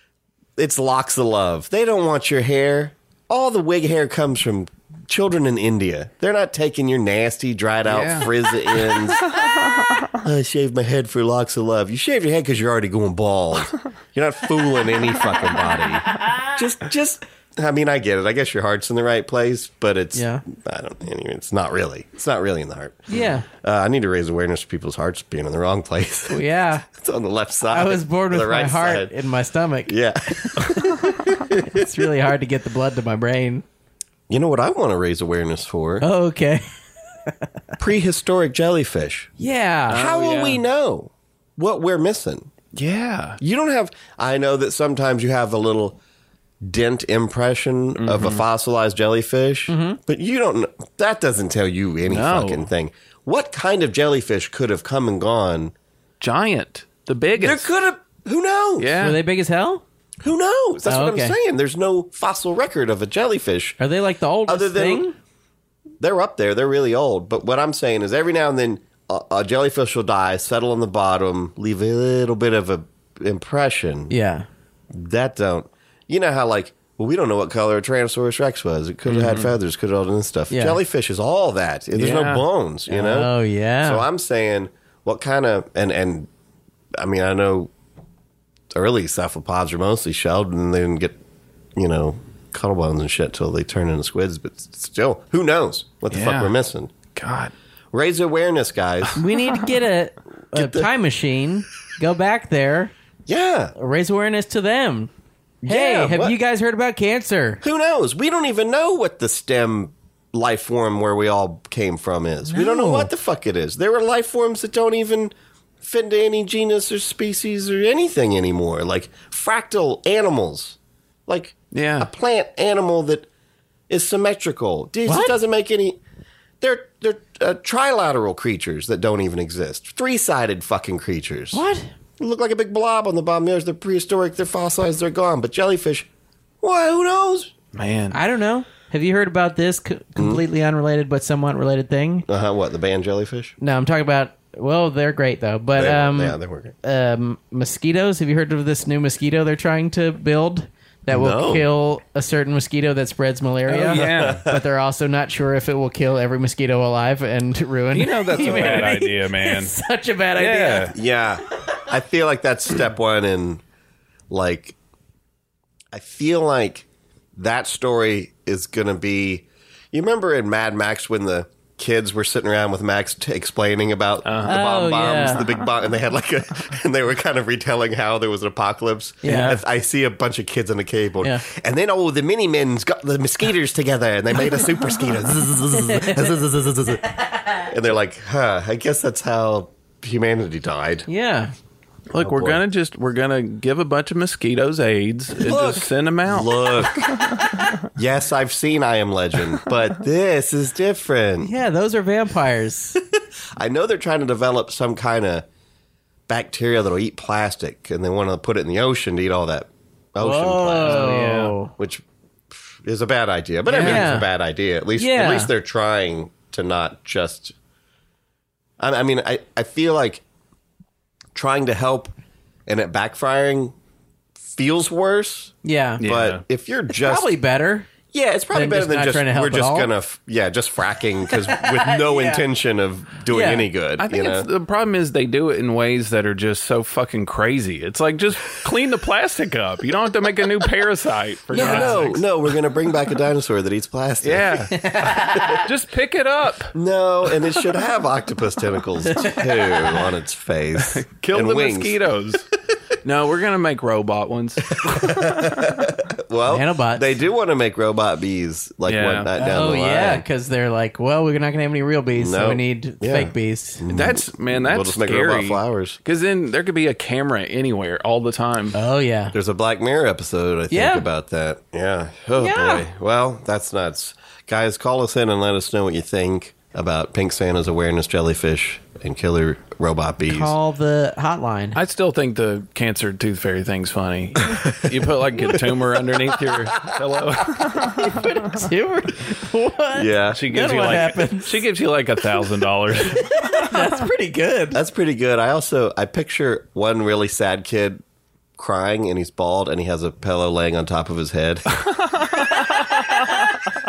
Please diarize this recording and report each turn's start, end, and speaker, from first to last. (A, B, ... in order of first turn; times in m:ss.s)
0:00.6-0:09.3 A
0:07.8-0:08.3 B
0:09.0-0:10.1 B
0:10.1-0:29.1 A
0:20.2-0:20.4 C
0:23.1-0:23.4 C
0:26.3-0:26.9 C
0:27.7-0:33.6 C
0:29.9-0:32.1 A
0:34.3-0:36.1 A
0:36.0-0:36.6 C
0:37.8-0:39.3 A
0:39.4-0:40.0 C
0:39.9-0:40.6 B
0:39.9-0:42.5 A
0:42.7-0:43.4 B
0:43.4-0:46.0 A
0:46.6-0:55.7 A
0:48.0-0:48.4 B
0:49.7-0:50.0 C
0:52.1-0:52.7 B
0:56.2-0:57.7 B
0:57.4-0:59.0 A
0:58.8-0:59.2 B
0:59.0-0:59.8 C
1:00.2-1:03.8 A
1:00.9-1:01.4 C
1:03.8-1:05.2 C
1:04.5-1:05.0 A
1:06.0-1:14.1 A
1:14.1-1:14.5 C
1:14.9-1:26.3 A
1:19.1-1:19.6 B
1:20.5-1:20.8 C
1:22.0-1:22.4 B
1:22.9-1:24.1 C
1:27.0-1:27.7 A
1:28.7-1:31.2 A
1:31.8-1:36.9 A
1:36.1-1:36.5 B
1:37.2-1:37.5 B
1:37.9-1:39.2 A
1:39.2-1:42.9 C
1:40.5-1:40.9 A
1:43.3-1:43.7 A
1:43.8-1:45.1 C
1:45.6-1:46.4 A
1:45.7-1:47.6 C
1:47.6-2:03.3 A
1:52.5-1:53.1 C
2:01.7-2:02.1 B
2:03.9-2:06.0 A
2:05.0-2:05.4 C
2:06.6-2:11.6 A
2:11.5-2:11.9 C
2:12.2-2:16.1 A
2:16.6-2:17.5 A
2:17.7-2:18.2 B
2:18.1-2:22.3 C
2:20.2-2:20.4 A
2:22.3-2:23.6 A
2:23.6-2:41.0 C
2:25.8-2:26.8 A
2:31.1-2:31.7 A
2:33.7-2:34.4 B
2:33.8-2:34.6 A
2:37.9-2:39.8 B
2:38.4-2:38.9 A
2:40.4-2:41.0 B
2:40.9-2:43.6 A
2:44.3-2:44.8 A
2:45.9-3:07.1 A
2:54.2-2:55.7 B
2:54.4-2:55.4 C
2:59.2-2:59.6 C
2:59.2-2:59.6 B
3:05.7-3:06.4 C
3:07.6-3:11.1 A
3:11.1-3:11.5 C
3:12.1-3:17.8 B
3:12.2-3:12.6 A
3:15.4-3:21.5 A
3:21.4-3:23.0 C
3:23.6-3:25.5 A
3:26.3-3:31.2 A
3:30.2-3:31.7 C
3:30.8-3:31.5 B
3:31.8-3:37.6 A
3:33.7-3:34.3 C
3:33.7-3:34.1 B
3:35.0-3:35.5 C
3:38.8-3:40.2 A
3:41.4-3:42.1 A
3:42.7-3:43.8 A
3:44.5-3:47.3 A
3:45.6-3:46.0 C
3:46.0-3:46.4 B
3:47.0-3:47.9 C
3:48.1-3:54.5 A
3:48.5-3:49.9 C
3:51.6-3:52.4 C
3:53.3-3:53.7 C
3:54.0-4:02.2 B
4:01.5-4:05.6 A
4:01.5-4:02.1 C
4:04.2-4:06.7 B
4:04.7-4:05.6 C
4:06.7-4:12.0 A
4:09.1-4:10.0 C
4:10.8-4:12.5 B
4:13.0-4:15.9 B
4:14.8-4:20.2 A
4:16.5-4:17.1 C
4:18.9-4:19.3 B
4:19.4-4:23.8 C
4:22.1-4:26.0 A
4:23.9-4:28.8 B
4:28.7-4:29.4 C
4:29.3-4:40.6 A
4:30.7-4:31.1 C
4:32.4-4:32.8 C
4:40.3-4:41.8 C
4:41.8-4:48.6 B
4:44.5-4:45.0 A
4:45.5-4:47.0 A
4:48.0-4:51.6 C
4:49.9-4:50.7 A
4:50.3-4:53.8 B
4:53.1-4:54.8 C
4:54.7-4:58.0 A
4:58.6-5:01.8 A
5:02.2-5:03.2 B